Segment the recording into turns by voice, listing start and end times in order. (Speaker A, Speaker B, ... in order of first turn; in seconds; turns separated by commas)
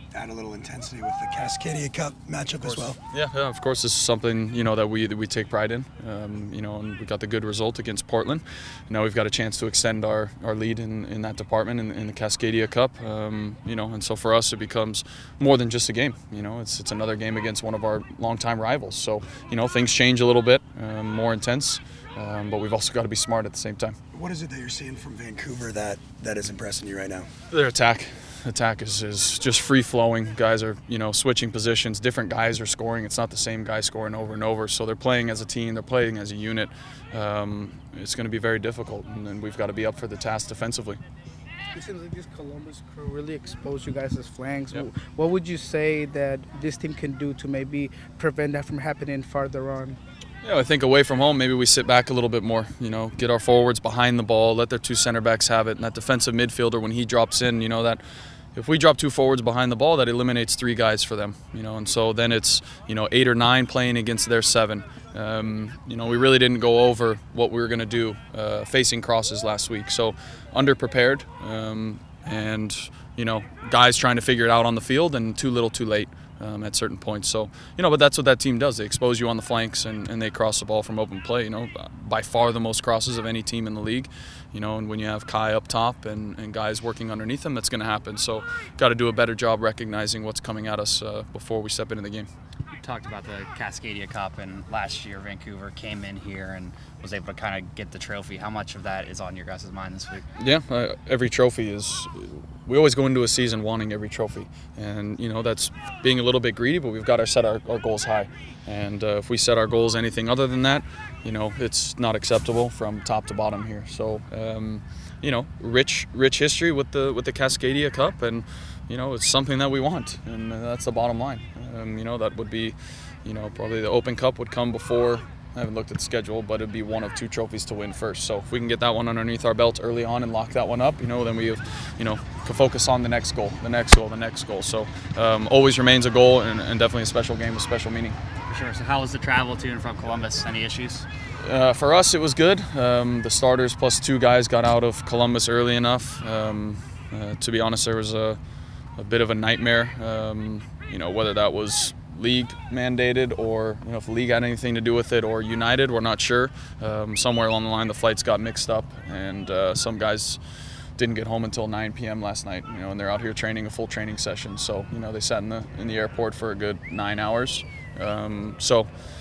Speaker A: 0.1-3.0, Speaker B: 2.6-24.0, Speaker A: 24.1-27.3, Speaker B: 27.5-41.0, Speaker C: 41.7-50.0, Speaker B: 50.4-58.0, Speaker B: 58.5-92.3, Speaker D: 92.8-100.2, Speaker B: 100.4-138.2, Speaker D: 138.5-141.1, Speaker B: 141.4-148.4, Speaker B: 149.0-160.4, Speaker B: 161.0-168.9